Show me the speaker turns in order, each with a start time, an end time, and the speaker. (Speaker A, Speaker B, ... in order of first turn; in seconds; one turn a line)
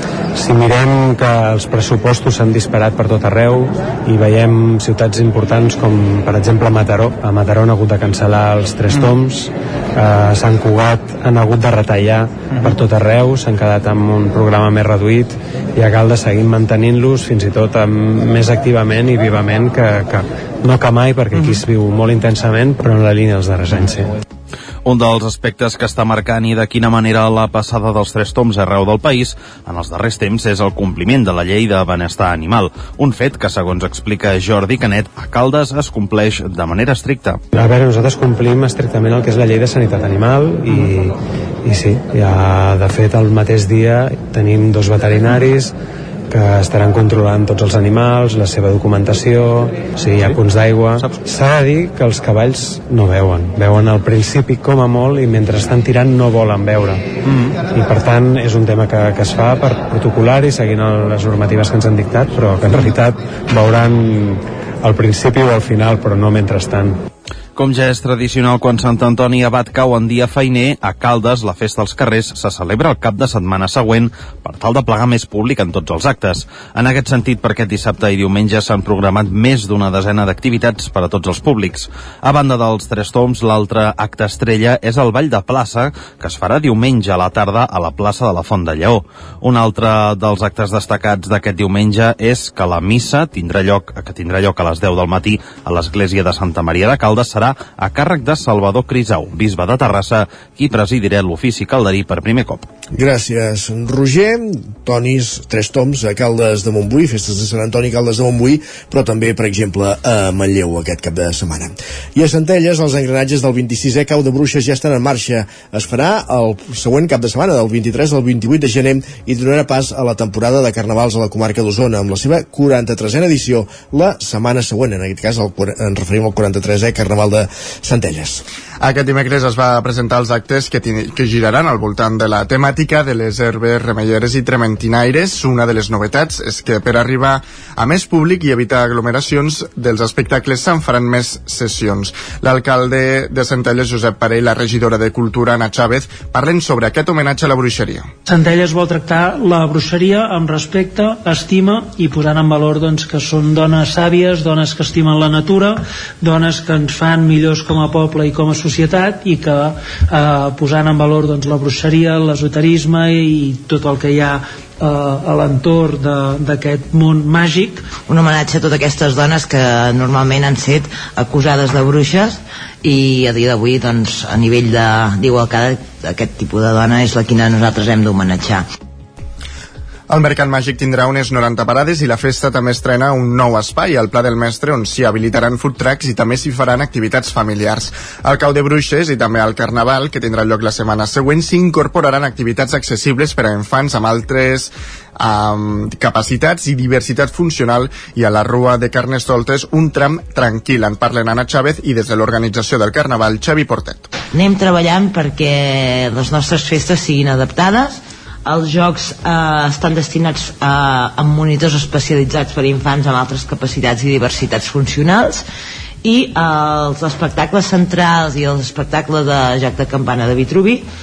Speaker A: 0.3-24.1
Speaker B: 24.9-37.4
Speaker A: 37.5-45.7
Speaker A: 46.3-67.0
Speaker B: 67.6-102.7
Speaker C: 102.9-128.4
Speaker D: 128.8-148.1
Speaker E: 148.3-167.8
Speaker F: 168.1-178.7
Speaker D: 180.1-204.1
Speaker F: 204.3-215.4
Speaker F: 216.0-220.9